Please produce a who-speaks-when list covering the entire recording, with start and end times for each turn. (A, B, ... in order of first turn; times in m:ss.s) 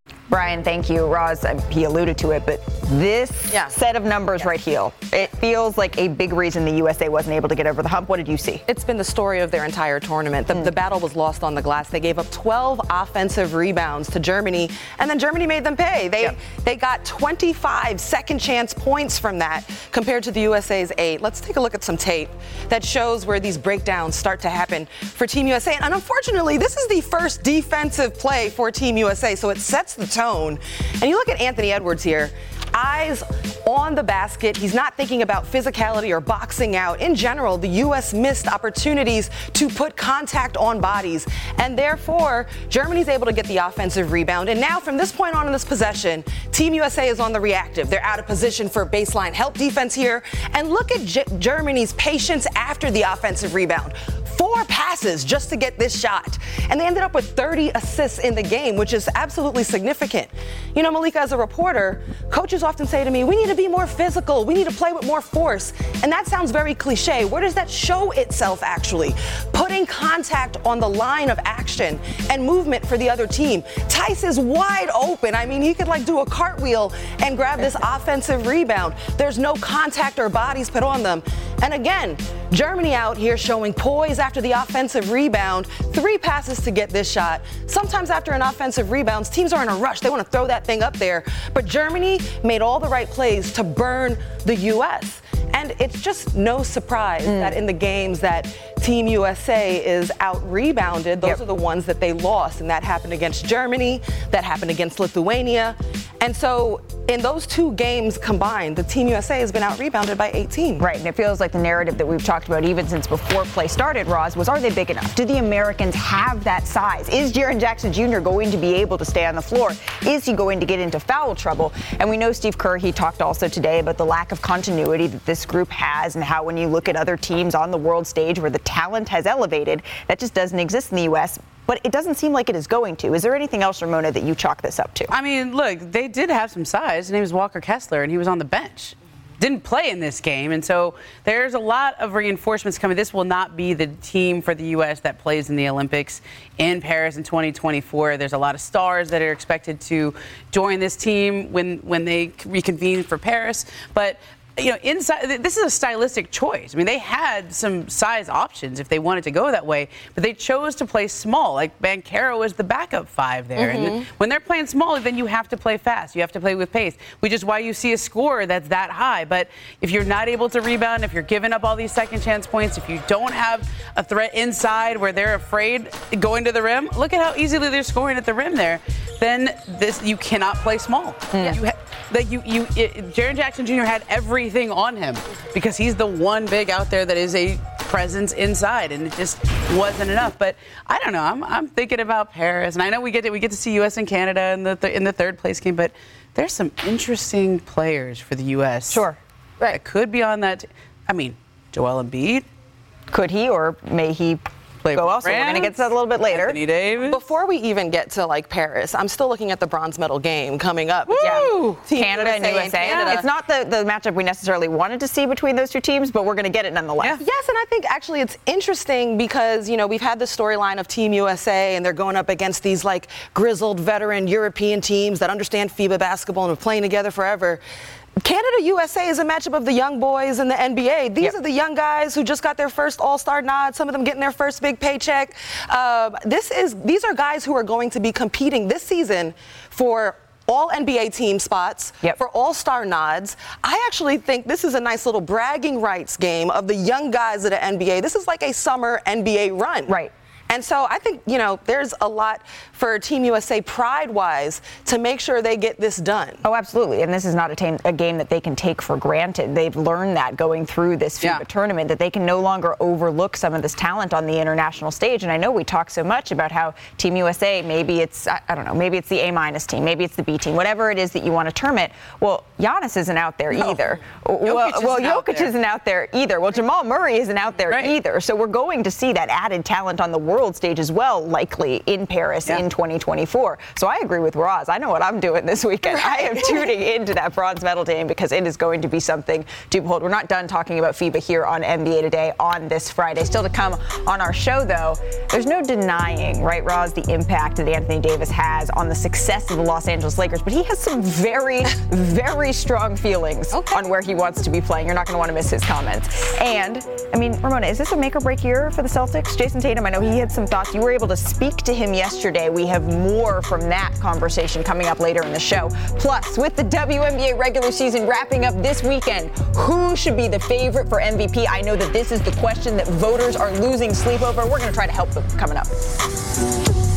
0:00.3-0:08.6 A
0:08.7-1:50.8 B
1:37.2-1:37.6 A
1:50.8-2:15.1 A
2:15.1-3:19.0 C
2:43.6-2:44.0 B
3:01.3-3:01.6 A
3:18.9-3:19.8 A
3:19.7-3:22.4 C
3:23.1-3:26.6 A
3:24.8-3:27.2 C
3:27.0-3:33.2 B
3:31.1-3:31.8 C
3:31.2-3:37.2 A
3:32.8-3:33.2 C
3:37.2-3:47.6 B
3:48.2-4:16.4 B
4:09.9-4:10.1 A
4:16.4-5:25.7 A
4:34.4-4:35.5 C
4:37.7-4:37.9 C
4:46.0-4:46.6 B
5:03.5-5:03.8 B